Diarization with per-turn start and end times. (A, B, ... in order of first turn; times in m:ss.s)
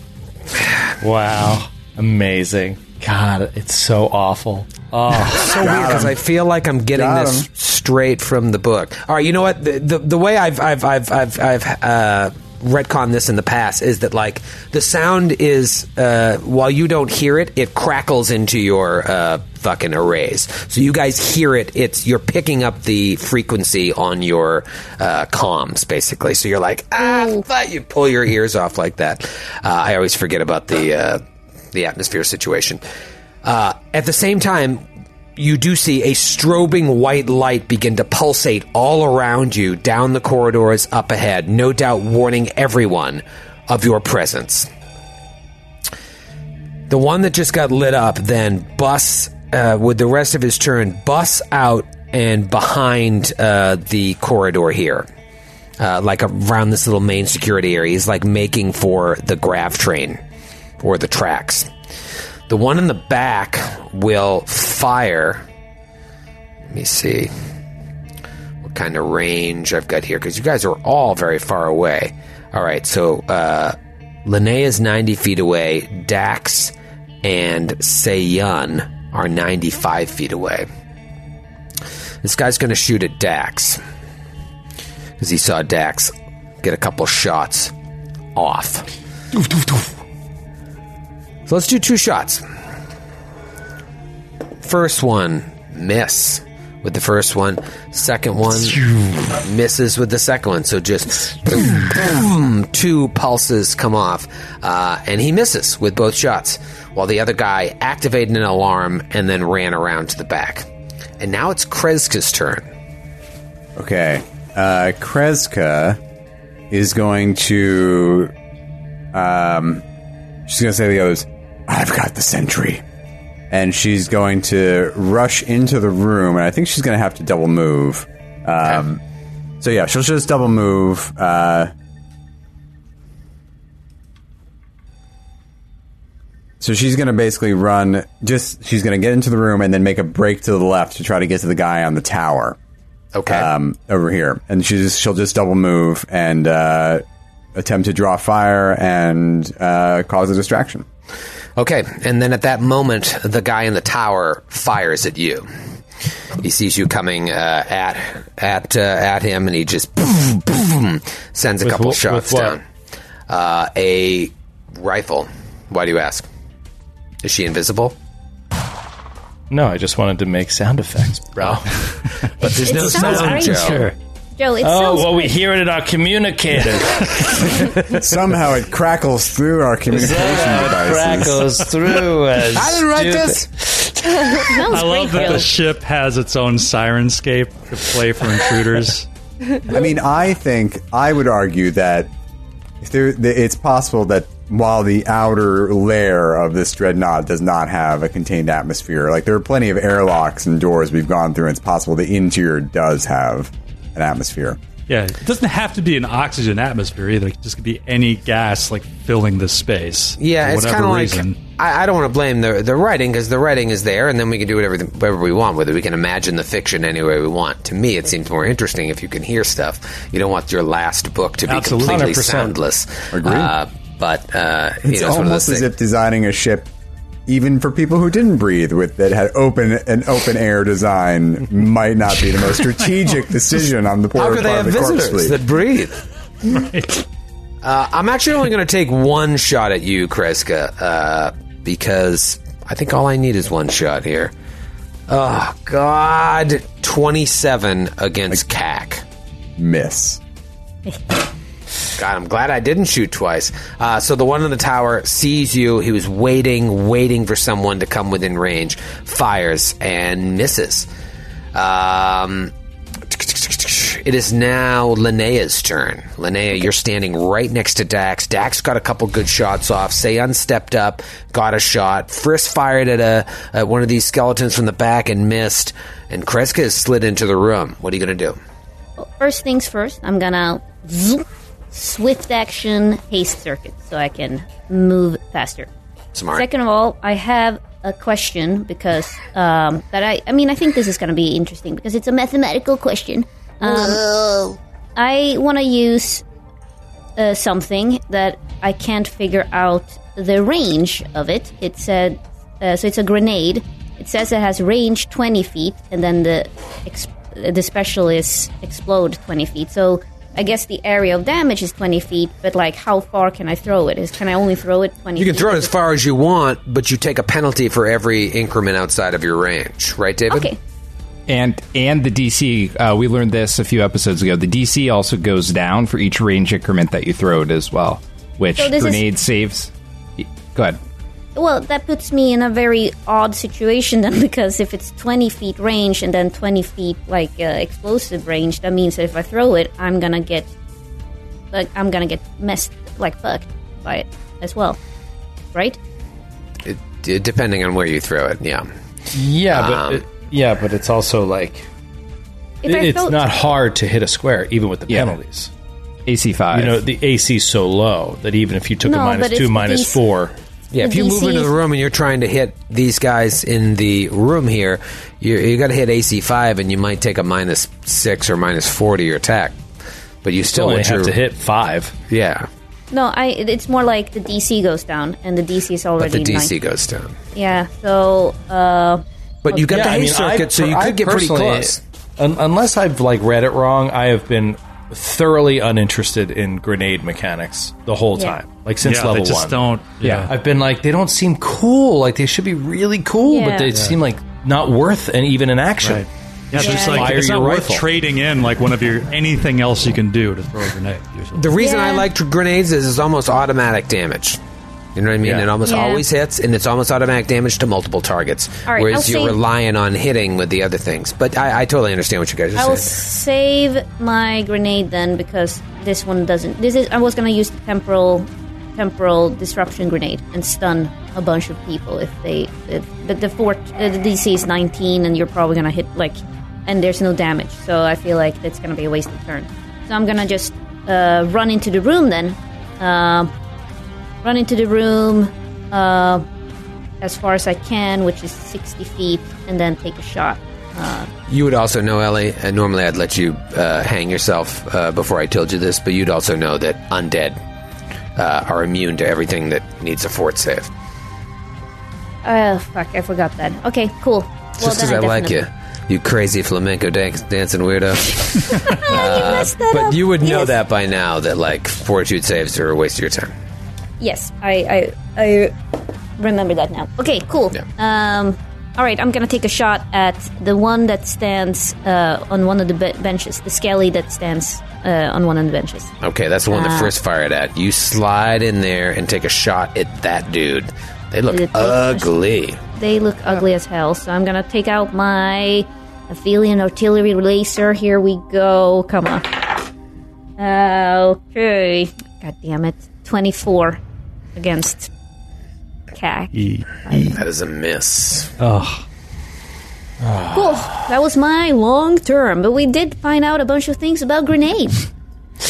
0:01.0-0:05.9 A
0:05.1-0:05.4 B
0:05.5-0:31.2 C
0:05.5-0:06.2 D
0:06.9-0:07.5 D
0:31.7-0:32.8 C
0:33.4-0:34.8 C
0:35.4-0:44.7 C
0:46.9-0:55.1 C
0:55.8-1:00.2 C
1:00.8-1:01.7 C
1:02.5-1:05.4 C
1:06.7-1:07.3 C
1:08.6-1:20.7 C
1:22.2-1:23.8 C
1:25.2-1:27.7 C
1:28.3-1:28.9 C
1:31.5-1:32.4 C
1:34.6-1:50.7 C
1:51.2-1:52.6 C
1:53.8-1:56.0 D
1:56.7-1:58.3 D
1:59.1-1:59.8 D
2:00.5-2:02.8 D
2:03.5-2:09.0 D
2:09.6-2:11.7 D
2:16.6-2:22.6 D
2:23.1-2:23.5 C
2:23.3-2:27.0 D
2:27.5-2:30.8 D
2:31.6-2:35.5 C
2:36.4-2:42.6 C
2:41.6-2:42.6 A
2:43.3-2:46.2 C
2:47.2-2:47.9 C
2:49.5-2:53.5 A
2:52.4-2:53.8 E
2:52.4-2:53.8 C
2:52.6-2:53.9 B
2:54.4-2:55.4 E
2:54.6-2:58.0 A
2:57.9-3:01.6 D
2:59.9-3:04.6 A
3:02.5-3:03.5 C
3:04.4-3:05.5 E
3:04.7-3:09.1 B
3:09.7-3:12.1 D
3:12.8-3:24.6 D
3:24.9-3:31.4 B
3:30.2-3:45.7 C
3:41.5-3:42.5 A
3:41.5-3:42.0 B
3:43.1-3:43.5 D
3:44.8-3:46.7 D
3:47.3-3:55.4 D
3:54.1-3:56.0 C
3:56.5-3:56.9 B
3:57.6-4:04.3 C
4:05.1-4:09.0 C
4:09.6-4:10.2 D
4:12.0-4:20.9 C
4:21.5-4:22.5 C
4:23.1-4:38.4 C
4:39.0-4:45.7 E
4:46.1-4:46.4 C
4:46.3-4:56.2 E
4:53.6-4:54.0 C
4:57.2-5:15.7 E
5:15.2-5:20.5 C
5:20.3-5:20.6 E
5:21.3-5:30.8 F
5:28.5-5:29.0 E
5:31.3-5:40.5 E
5:41.5-5:44.8 E
5:46.6-5:48.7 C
5:49.1-5:51.7 A
5:49.5-5:50.0 C
5:52.6-5:53.2 E
5:52.6-5:55.5 A
5:54.9-5:55.1 F
5:56.1-5:56.8 F
5:56.5-6:00.3 A
5:58.8-6:00.0 E
6:00.7-6:09.6 C
6:00.8-6:01.5 E
6:10.2-6:11.1 C
6:10.4-6:11.9 A
6:12.1-6:12.5 C
6:12.9-6:16.5 E
6:16.0-6:17.2 C
6:17.3-6:19.0 E
6:19.4-6:21.8 C
6:19.6-6:29.7 A
6:28.8-6:30.3 B
6:30.0-6:30.3 F
6:30.2-6:37.8 A
6:33.2-6:33.7 E
6:33.7-6:34.0 B
6:35.8-6:41.5 B
6:36.6-6:37.1 E
6:41.3-6:44.4 C
6:41.6-6:42.1 E
6:44.9-6:52.9 C
6:45.2-6:45.5 A
6:45.6-6:46.0 E
6:48.7-6:49.4 E
6:52.6-7:13.3 E
7:14.2-7:16.2 E
7:17.0-7:21.1 E
7:21.3-7:27.4 C
7:28.2-7:30.7 C
7:32.2-7:35.4 E
7:34.6-7:43.3 C
7:38.5-7:40.5 E
7:44.0-7:45.5 E
7:46.2-7:55.9 E
7:56.0-8:02.6 C
7:56.5-7:56.9 E
8:01.3-8:02.1 E
8:02.8-8:09.6 E
8:10.4-8:13.8 E
8:14.4-8:14.9 E
8:15.9-8:17.2 E
8:16.3-8:17.2 B
8:17.2-8:18.3 C
8:18.4-8:18.8 B
8:20.0-8:20.8 A
8:20.3-8:24.8 E